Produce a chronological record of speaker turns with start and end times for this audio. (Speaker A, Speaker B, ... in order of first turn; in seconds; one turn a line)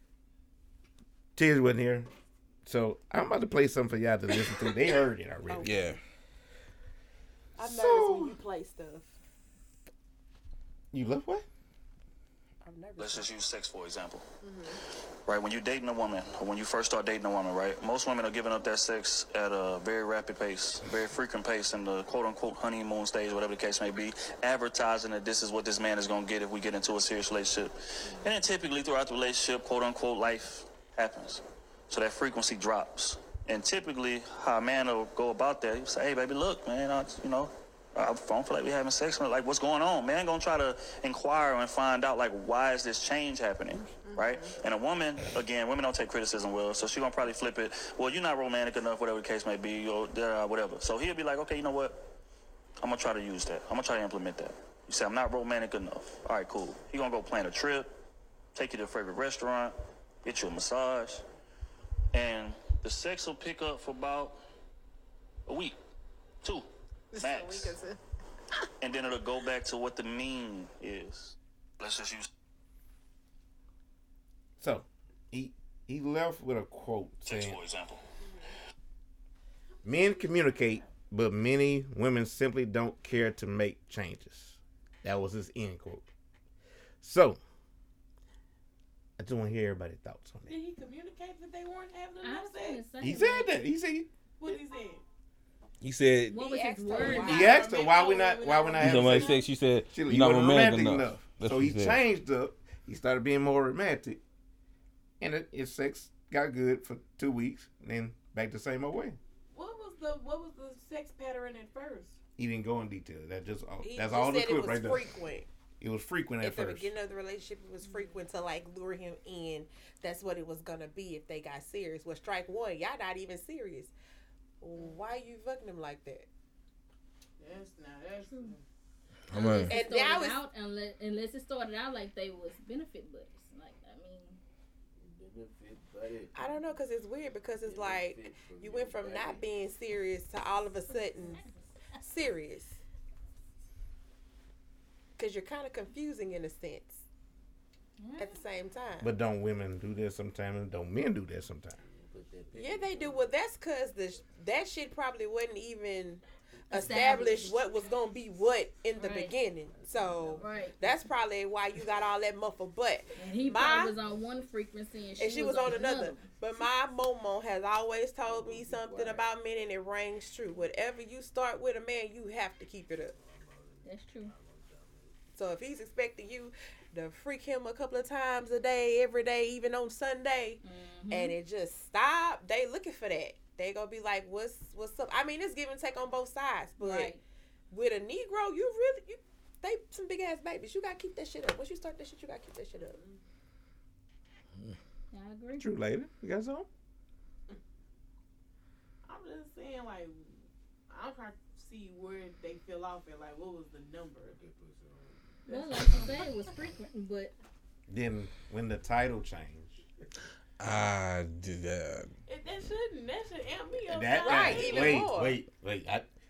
Speaker A: 1.4-2.1
Speaker A: 2.7-5.7
Speaker B: 5.5-6.0
Speaker C: 5.6-6.0
Speaker B: 7.6-9.1
Speaker A: 7.6-8.3
Speaker A: 10.9-11.5
Speaker B: 12.6-13.3
Speaker D: 13.0-14.3
Speaker E: 14.4-14.8
Speaker D: 15.3-52.0
Speaker D: 52.8-57.9
Speaker D: 58.5-61.2
Speaker D: 62.1-64.4
Speaker D: 65.5-65.8
Speaker D: 66.4-67.8
Speaker E: 67.1-68.0
Speaker D: 68.8-72.3
Speaker A: 74.6-77.6
Speaker D: 77.2-78.0
Speaker A: 79.8-86.0
Speaker A: 87.0-87.4
Speaker A: 89.2-90.5
Speaker E: 90.5-92.8
Speaker F: 92.2-93.6
Speaker A: 93.0-94.6
Speaker E: 94.4-95.0
Speaker C: 95.8-96.4
Speaker F: 96.3-97.5
Speaker B: 96.3-97.8
Speaker A: 97.0-99.3
Speaker E: 97.4-99.4
Speaker C: 98.8-102.0
Speaker A: 99.9-104.2
Speaker A: 105.2-109.2
Speaker E: 109.5-112.2
Speaker A: 112.4-115.0
Speaker B: 113.8-115.5
Speaker A: 115.8-116.9
Speaker B: 116.4-123.9
Speaker E: 117.8-118.2
Speaker B: 124.6-126.3
Speaker E: 127.4-128.6
Speaker C: 129.3-129.8
Speaker F: 129.3-134.4
Speaker B: 129.7-130.4
Speaker G: 135.0-136.6
Speaker B: 136.3-141.4
Speaker G: 137.6-139.5
Speaker F: 140.9-142.0
Speaker B: 142.0-142.8
Speaker B: 145.2-147.0
Speaker F: 148.0-148.4
Speaker B: 148.2-149.1
Speaker A: 149.0-151.8
Speaker G: 151.8-153.3
Speaker B: 152.5-163.9
Speaker F: 156.7-157.7
Speaker F: 159.0-159.4
Speaker G: 159.7-160.4
Speaker F: 160.4-160.8
Speaker F: 163.2-166.3
Speaker B: 165.2-173.2
Speaker G: 168.2-169.3
Speaker G: 173.2-175.2
Speaker F: 173.8-174.3
Speaker B: 175.3-180.6
Speaker F: 180.6-181.4
Speaker B: 181.1-187.2
Speaker F: 186.8-187.2
Speaker B: 187.7-193.0
Speaker E: 192.8-193.2
Speaker F: 195.1-195.7
Speaker A: 195.6-196.7
Speaker E: 199.1-200.3
Speaker E: 200.9-204.4
Speaker G: 204.4-205.2
Speaker F: 205.5-207.3
Speaker E: 205.5-206.3
Speaker A: 207.9-209.8
Speaker C: 210.6-212.1
Speaker E: 212.3-215.1
Speaker A: 213.9-216.1
Speaker B: 214.2-215.4